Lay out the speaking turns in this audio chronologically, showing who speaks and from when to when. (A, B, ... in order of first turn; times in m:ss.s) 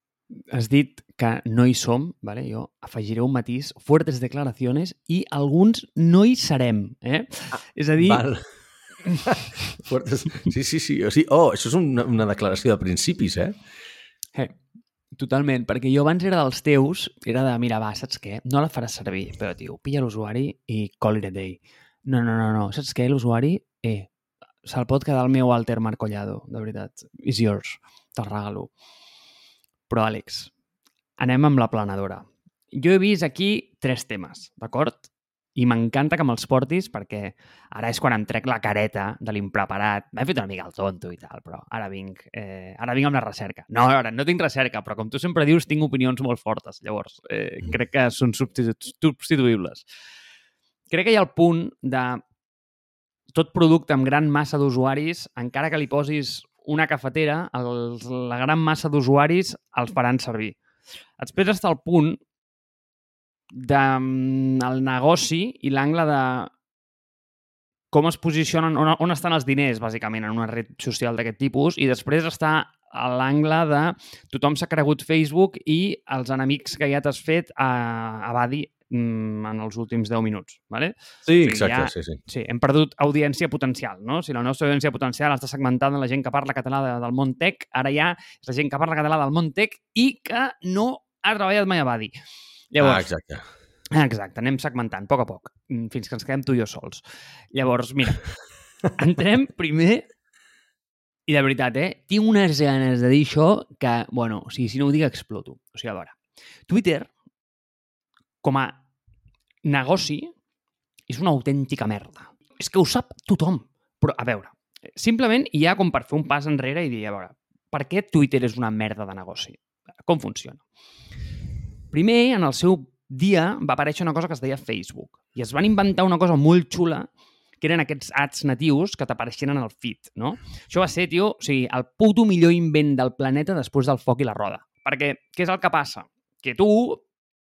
0:00.3-0:08.2 A
0:08.0-0:08.4 B
0:09.2-0:13.6 B
0:15.2-0:24.1 A
0:24.6-0:28.7 A
0:29.9-0:30.5 A
0:31.2-0:49.8 A
0:50.9-0:52.2 A
0:53.3-1:00.6 A
1:01.2-1:02.2 A
1:03.5-1:06.5 A
1:07.9-1:32.1 A
1:21.3-1:22.2 B
1:32.7-1:33.1 A
1:32.8-1:33.4 B
1:33.9-1:38.2 A
1:38.9-1:40.1 A
1:41.3-1:46.2 A
1:46.7-1:47.1 A
1:48.4-1:48.8 A
1:49.6-1:50.3 A
1:51.1-2:00.6 A
2:01.9-2:07.1 A
2:07.6-2:17.0 A